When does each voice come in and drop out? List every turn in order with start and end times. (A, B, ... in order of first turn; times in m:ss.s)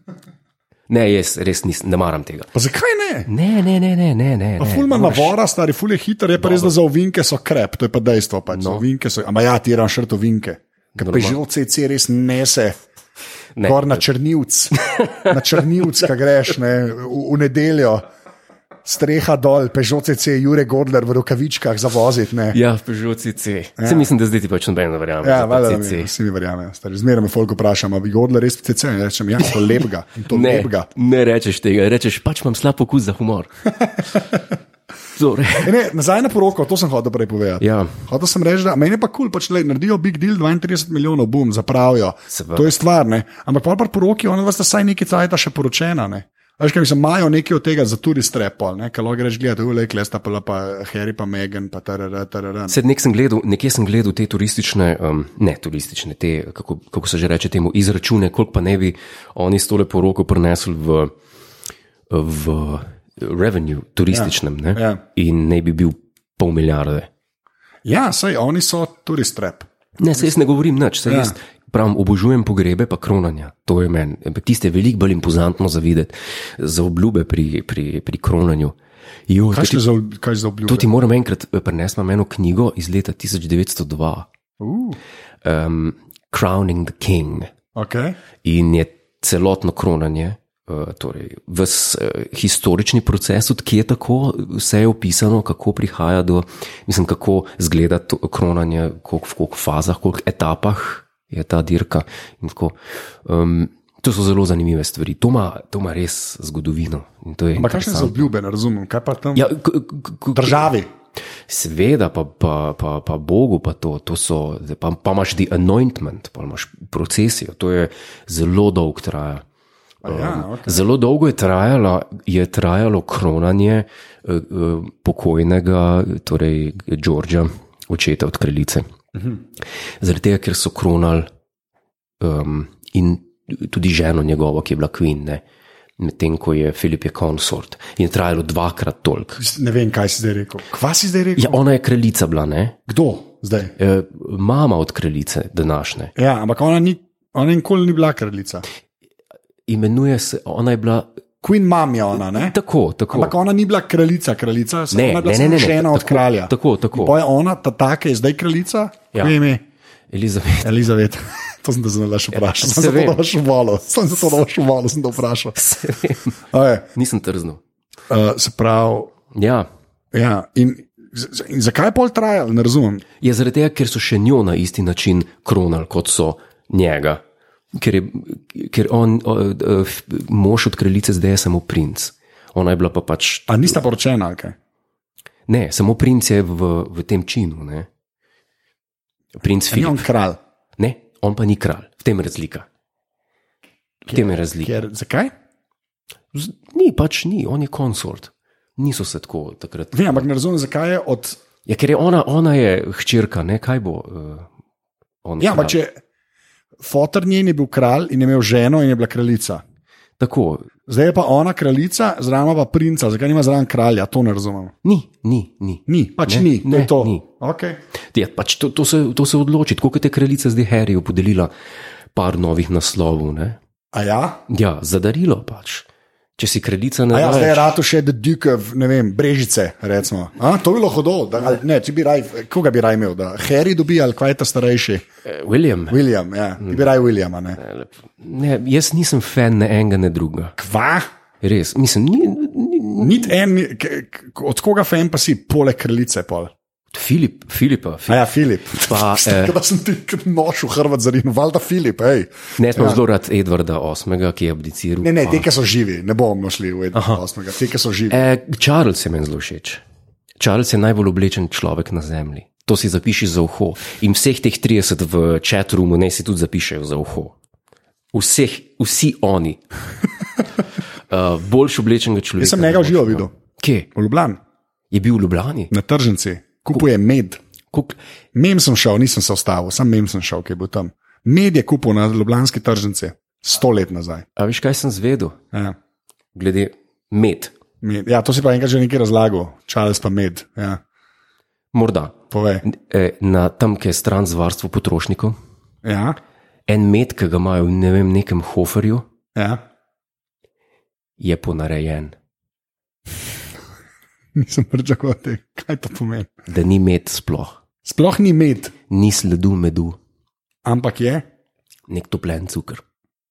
0:00.9-0:02.5 A
0:02.5-0:03.3 B
0:03.3-0:05.3 A
0:04.6-0:12.9 B
0:06.4-0:06.7 A
0:08.5-0:08.8 A
0:11.0-0:11.4 A
0:13.6-0:14.0 A
0:13.6-0:18.0 B
0:14.8-0:15.7 A
0:18.8-0:22.6 B
0:22.5-0:26.1 A
0:23.8-0:24.1 B
0:25.2-0:30.9 B
0:30.3-0:33.5 A
0:33.7-0:34.5 B
0:35.2-0:35.7 A
0:35.6-0:52.8 B
0:37.6-0:38.0 A
0:42.3-0:42.7 A
0:52.7-1:01.1 A
1:02.1-1:07.1 A
1:04.1-1:05.0 B
1:07.8-1:09.7 B
1:10.0-1:18.8 A
1:11.1-1:11.3 B
1:19.3-1:19.8 A
1:19.5-1:20.9 B
1:20.7-1:24.3 A
1:24.6-1:25.0 B
1:25.4-1:27.5 A
1:27.8-1:28.2 B
1:28.4-1:48.3 A
1:47.6-1:49.5 B
1:49.4-1:50.7 A
1:50.4-1:50.9 B
1:51.5-1:59.4 A
2:00.0-2:00.9 B
2:00.1-2:08.9 A
2:09.2-2:09.4 B
2:10.0-2:11.3 A
2:12.2-2:15.4 A
2:16.0-2:19.4 A
2:19.4-2:21.6 B
2:21.4-2:22.8 A
2:22.9-2:23.7 B
2:23.8-2:26.1 A
2:26.2-2:28.6 B
2:29.7-2:31.1 A
2:31.4-2:32.6 B
2:32.2-2:33.4 A
2:33.1-2:39.6 B
2:34.9-2:37.2 A
2:40.1-2:40.7 A
2:40.6-2:45.6 B
2:42.3-2:43.2 A
2:45.6-2:46.3 A
2:46.5-2:46.9 B
2:47.0-2:47.6 A
2:48.1-2:49.1 B
2:49.3-2:49.7 A
2:50.1-2:53.0 B
2:53.2-2:57.2 A
2:57.7-3:03.8 A
3:03.5-3:04.6 B
3:05.5-3:07.9 A
3:09.4-3:10.1 A
3:09.7-3:10.4 B
3:10.8-3:12.7 A
3:14.1-3:14.7 A
3:14.1-3:15.3 B
3:16.3-3:20.2 A
3:19.9-3:21.4 B
3:21.7-3:24.5 A
3:25.2-3:25.8 A
3:25.4-3:26.0 B
3:26.8-3:29.6 B
3:30.2-3:30.7 A
3:30.9-3:34.7 B
3:34.8-3:37.2 A
3:35.9-3:37.8 B
3:38.1-3:41.5 A
3:42.1-3:43.6 A
3:43.9-3:44.4 B
3:44.5-3:45.9 A
3:46.4-3:47.8 A
3:47.1-3:55.0 B
3:55.2-3:56.0 A
3:55.9-3:57.6 B
3:57.6-4:00.6 A
4:00.6-4:01.1 B
4:01.4-4:03.3 A
4:03.0-4:06.5 B
4:06.9-4:08.2 A
4:08.1-4:13.0 B
4:08.7-4:09.6 A
4:12.6-4:15.5 A
4:15.0-4:18.2 B
4:16.9-4:17.2 A
4:18.1-4:19.8 A
4:20.4-4:27.4 A
4:28.1-4:29.6 A
4:31.1-4:33.9 A
4:32.4-4:33.3 B
4:34.0-4:34.4 B
4:34.9-4:35.7 A
4:35.7-4:37.4 B
4:38.3-4:44.2 B
4:44.4-4:45.4 A
4:46.4-4:47.5 A
4:47.8-4:50.8 B
4:51.7-4:55.4 A
4:52.3-4:52.6 B
4:55.8-4:56.2 B
4:56.7-4:59.0 A
4:59.4-4:59.6 B
5:01.2-5:02.2 A
5:04.4-5:06.3 B
5:06.5-5:07.6 A
5:07.8-5:08.7 B
5:08.9-5:10.0 A
5:10.6-5:11.3 B
5:11.9-5:12.8 A